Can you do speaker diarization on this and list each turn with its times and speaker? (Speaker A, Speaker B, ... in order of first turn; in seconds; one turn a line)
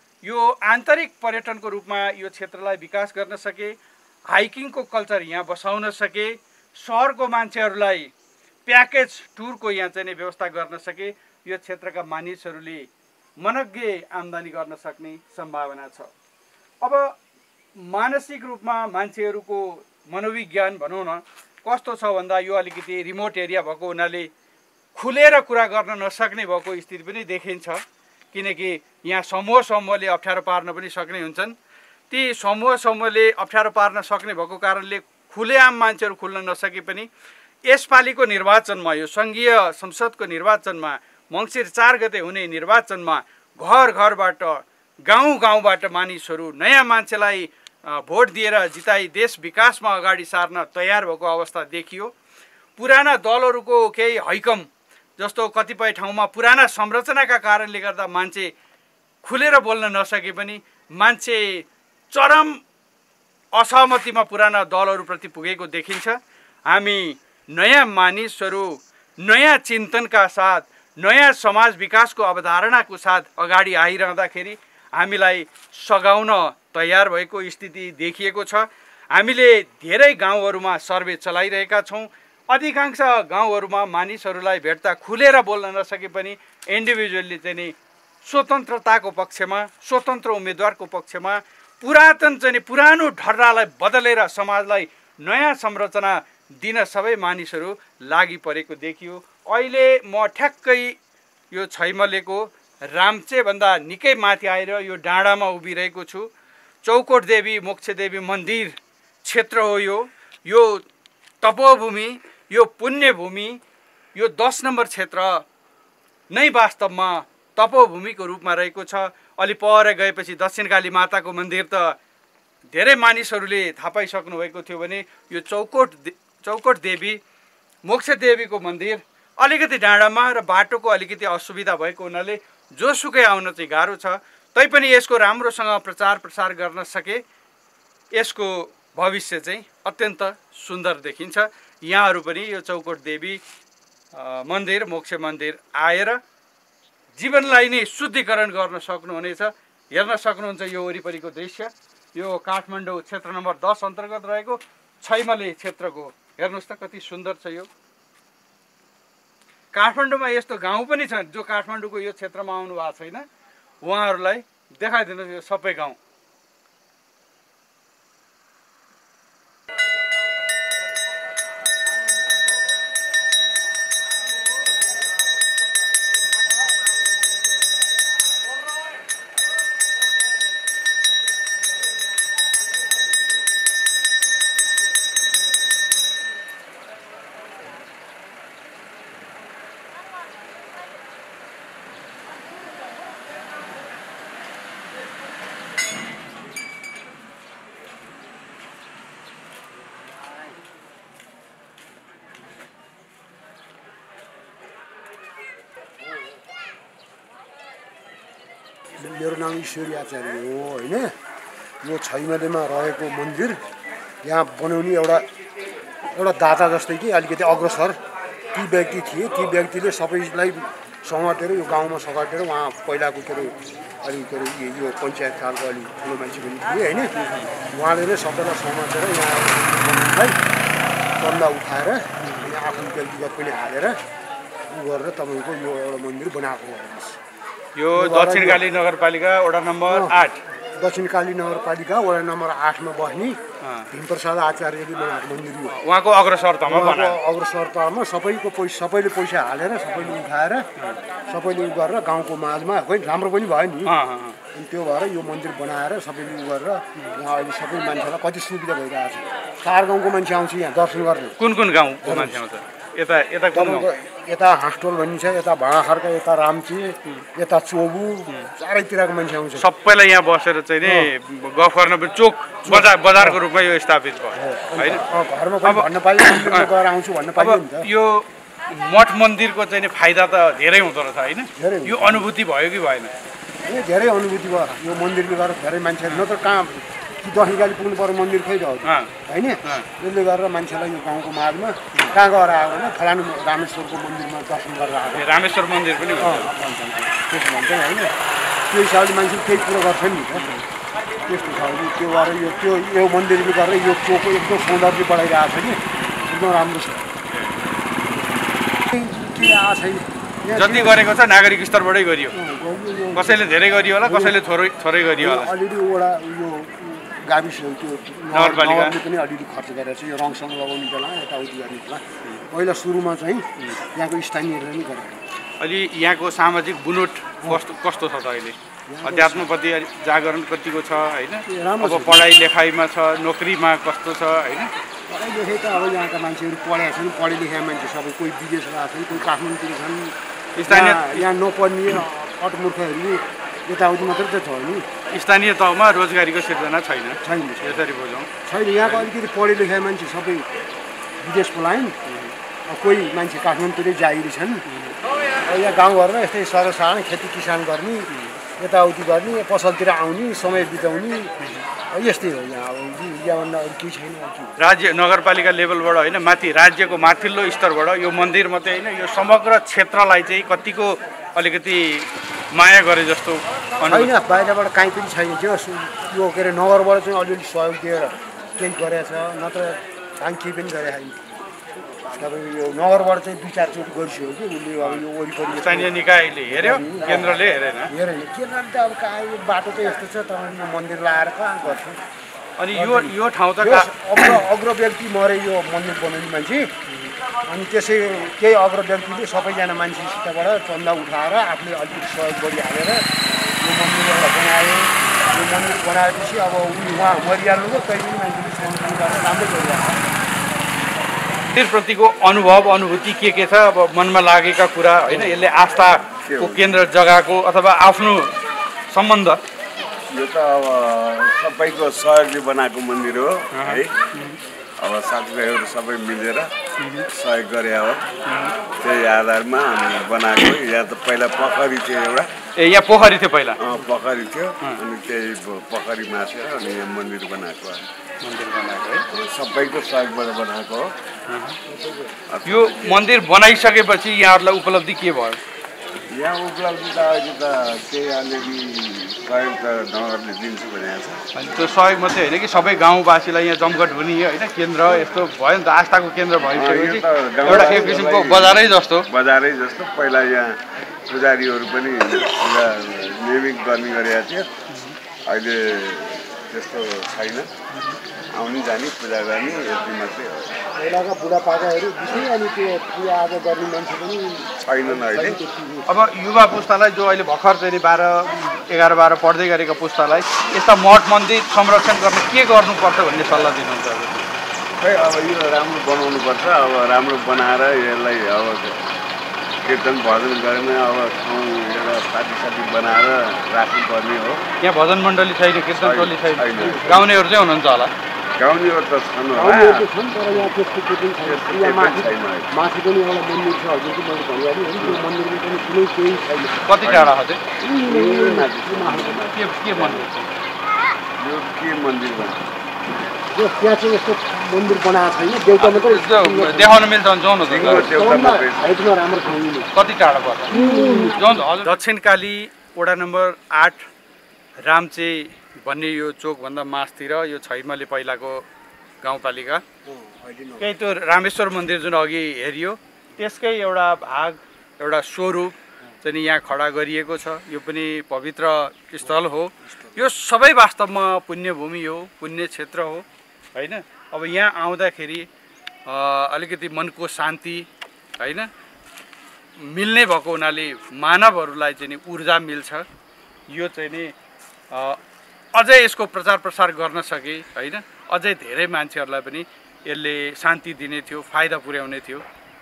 Speaker A: 0.2-3.8
Speaker A: 4.3-8.1
Speaker A: 8.7-12.9
Speaker A: 13.4-16.1
Speaker A: 16.8-17.1
Speaker A: 17.8-24.3
Speaker A: 25.0-27.8
Speaker A: 28.3-31.5
Speaker A: 32.1-37.1
Speaker A: 37.7-52.1
Speaker A: 52.8-54.7
Speaker A: 55.2-58.5
Speaker A: 59.2-62.6
Speaker A: 63.5-66.2
Speaker A: 66.7-101.0
Speaker A: 101.5-106.3
Speaker A: 106.8-110.8
Speaker A: 111.4-113.6
Speaker A: 114.2-115.5
Speaker A: 116.3-122.0
Speaker A: 122.7-127.2
Speaker A: 127.8-137.2
Speaker A: 138.1-143.4
Speaker A: 144.1-146.2
Speaker A: 147.2-157.7
Speaker A: 159.7-163.3
Speaker A: 163.8-166.0
Speaker B: 209.0-211.1
Speaker B: 211.8-213.6
Speaker B: 214.2-215.2
Speaker B: 216.1-218.0
Speaker B: 218.5-227.2
Speaker A: 227.2-227.5
Speaker B: 227.7-230.4
Speaker B: 231.2-234.0
Speaker A: 232.2-232.5
Speaker B: 234.7-237.2
Speaker A: 237.8-240.4
Speaker B: 237.9-238.7
Speaker B: 239.9-243.4
Speaker A: 243.6-243.9
Speaker B: 243.9-245.8
Speaker A: 245.8-247.2
Speaker B: 246.7-250.7
Speaker B: 251.3-254.0
Speaker A: 253.8-254.4
Speaker B: 254.5-261.4
Speaker A: 261.4-263.9
Speaker B: 262.1-262.4
Speaker B: 263.5-269.6
Speaker A: 269.6-275.0
Speaker B: 270.8-271.1
Speaker B: 272.7-273.4
Speaker B: 274.4-277.9
Speaker A: 275.6-276.7
Speaker A: 277.4-283.1
Speaker B: 281.6-282.3
Speaker B: 283.7-295.3
Speaker A: 288.8-289.1
Speaker A: 295.1-296.5
Speaker B: 296.2-298.1
Speaker B: 298.7-300.6
Speaker A: 300.4-300.6
Speaker B: 301.3-307.1
Speaker A: 305.9-306.3
Speaker A: 307.3-307.6
Speaker B: 308.9-311.0
Speaker A: 310.6-312.4
Speaker B: 312.3-314.4
Speaker A: 313.1-315.5
Speaker B: 315.2-325.2
Speaker A: 318.3-319.0
Speaker A: 325.6-334.7
Speaker B: 328.9-329.5
Speaker B: 331.5-332.3
Speaker B: 335.1-340.2
Speaker A: 340.6-341.3
Speaker B: 340.7-344.9
Speaker A: 345.1-348.3
Speaker B: 347.2-347.8
Speaker B: 348.4-350.5
Speaker A: 348.8-349.1
Speaker B: 351.2-352.0
Speaker A: 352.1-352.4
Speaker B: 352.7-354.6
Speaker A: 354.7-355.0
Speaker B: 355.4-361.4
Speaker A: 358.1-358.4
Speaker A: 361.4-361.7
Speaker B: 361.9-364.6
Speaker A: 364.6-374.1
Speaker B: 373.9-381.2
Speaker B: 382.1-386.0
Speaker A: 385.6-387.9
Speaker B: 386.5-392.0
Speaker A: 392.6-394.4
Speaker B: 392.7-396.8
Speaker B: 397.5-403.1
Speaker B: 403.6-410.0
Speaker A: 411.5-418.3
Speaker C: 416.3-416.6
Speaker A: 418.9-419.4
Speaker C: 420.1-423.9
Speaker A: 423.5-424.4
Speaker C: 424.8-426.5
Speaker A: 426.8-427.1
Speaker C: 427.1-428.0
Speaker A: 428.3-428.5
Speaker C: 428.8-432.3
Speaker A: 432.6-433.6
Speaker C: 433.6-437.9
Speaker A: 438.2-439.0
Speaker C: 439.1-440.9
Speaker A: 441.3-441.6
Speaker B: 441.7-442.2
Speaker C: 442.3-443.0
Speaker A: 442.5-445.4
Speaker C: 446.1-451.2
Speaker A: 451.3-459.1
Speaker C: 456.5-464.5
Speaker B: 457.5-457.9
Speaker A: 464.7-465.0
Speaker C: 465.3-467.5
Speaker A: 467.7-468.0
Speaker C: 468.3-470.5
Speaker B: 470.8-475.9
Speaker C: 474.7-475.4
Speaker A: 475.9-484.3
Speaker C: 484.8-488.8
Speaker C: 489.6-494.5
Speaker A: 494.6-497.9
Speaker C: 495.8-497.0
Speaker B: 496.6-497.1
Speaker C: 498.4-500.5
Speaker B: 499.4-506.6
Speaker C: 501.2-502.5
Speaker C: 504.8-505.0
Speaker A: 506.7-507.4
Speaker C: 506.8-507.1
Speaker B: 507.6-509.4
Speaker C: 507.7-510.1
Speaker A: 509.3-510.2
Speaker C: 511.2-512.4
Speaker B: 513.3-516.8
Speaker A: 515.6-517.9
Speaker C: 517.5-518.9
Speaker B: 517.5-519.7
Speaker A: 519.7-523.9
Speaker B: 520.5-521.4
Speaker A: 524.6-528.5
Speaker A: 529.0-529.6
Speaker B: 529.9-530.7
Speaker A: 530.6-545.3
Speaker B: 539.0-540.0
Speaker A: 545.9-547.7
Speaker A: 548.2-548.5
Speaker A: 549.6-552.9
Speaker A: 553.5-554.1
Speaker A: 554.7-555.0
Speaker A: 555.5-562.2